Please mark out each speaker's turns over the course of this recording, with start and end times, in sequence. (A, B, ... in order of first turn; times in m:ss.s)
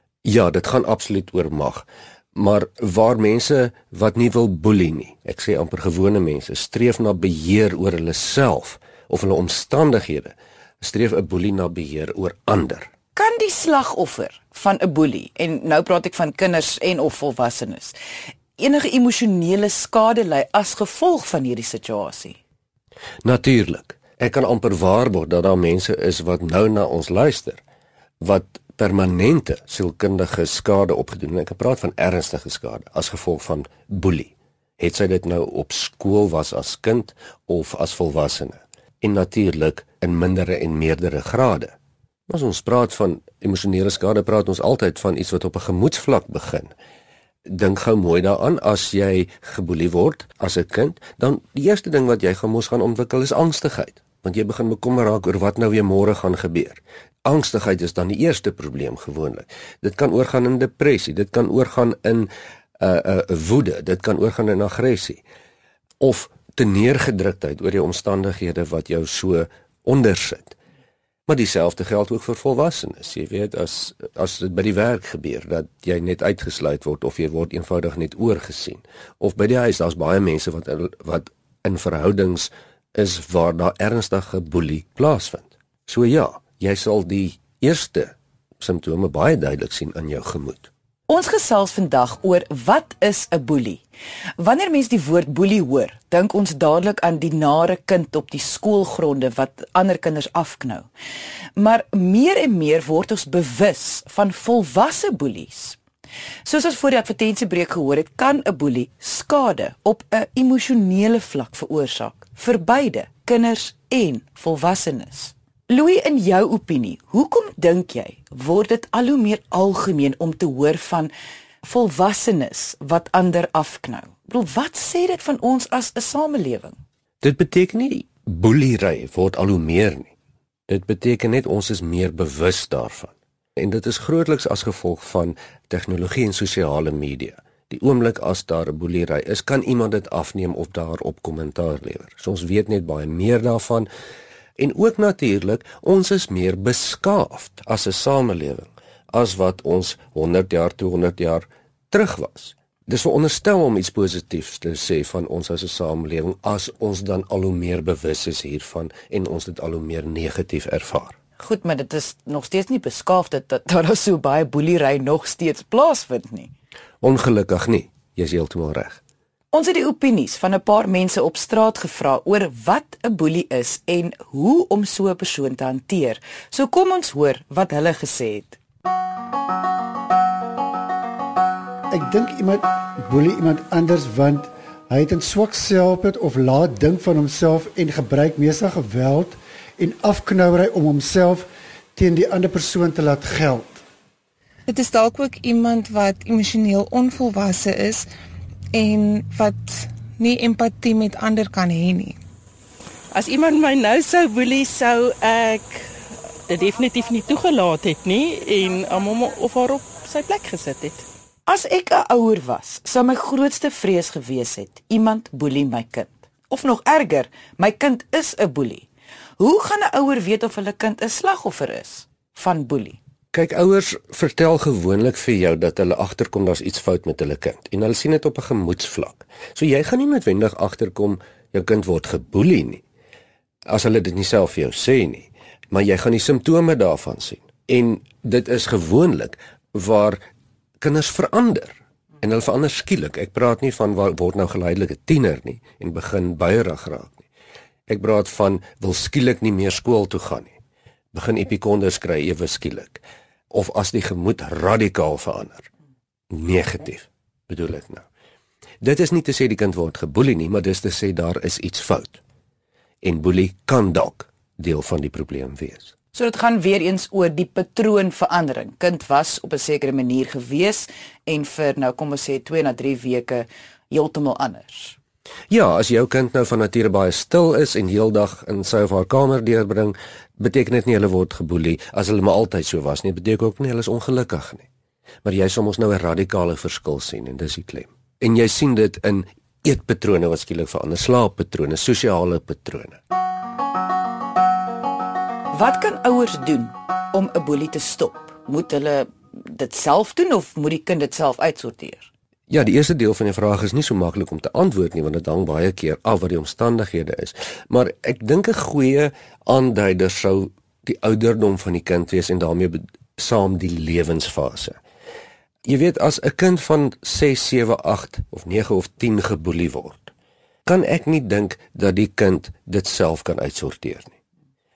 0:00.2-0:12.9 A
0:13.1-0:18.0 B
0:18.6-0:22.4 B
0:23.2-0:27.6 A
0:28.2-0:41.7 A
0:42.3-0:46.7 A
0:47.5-1:05.2 A
1:06.0-1:10.6 A
1:11.3-1:30.7 A
1:31.1-1:33.8 B
1:34.4-1:40.9 B
1:41.6-1:45.8 B
1:46.4-2:01.1 B
2:01.6-2:06.8 B
2:07.2-2:10.1 A
2:10.7-2:23.9 A
2:24.6-2:41.2 A
2:41.4-2:46.5 B
2:47.0-2:49.0 A
2:49.5-2:58.6 B
3:01.9-3:13.8 C
3:14.7-3:18.1 D
3:18.7-3:22.2 D
3:23.1-3:25.9 E
3:26.5-3:31.0 E
3:31.5-3:38.9 B
3:39.4-3:43.0 B
3:43.3-3:52.8 A
3:53.7-4:00.2 A
4:00.8-4:07.2 A
4:07.9-4:10.5 A
4:11.1-4:15.7 A
4:16.3-4:18.0 A
4:18.8-4:22.2 A
4:23.0-4:25.9 A
4:26.1-4:35.0 B
4:35.5-4:44.6 A
4:45.2-4:53.0 A
4:55.5-5:02.1 B
5:02.5-5:14.8 A
5:15.6-5:20.1 A
5:20.6-5:24.2 A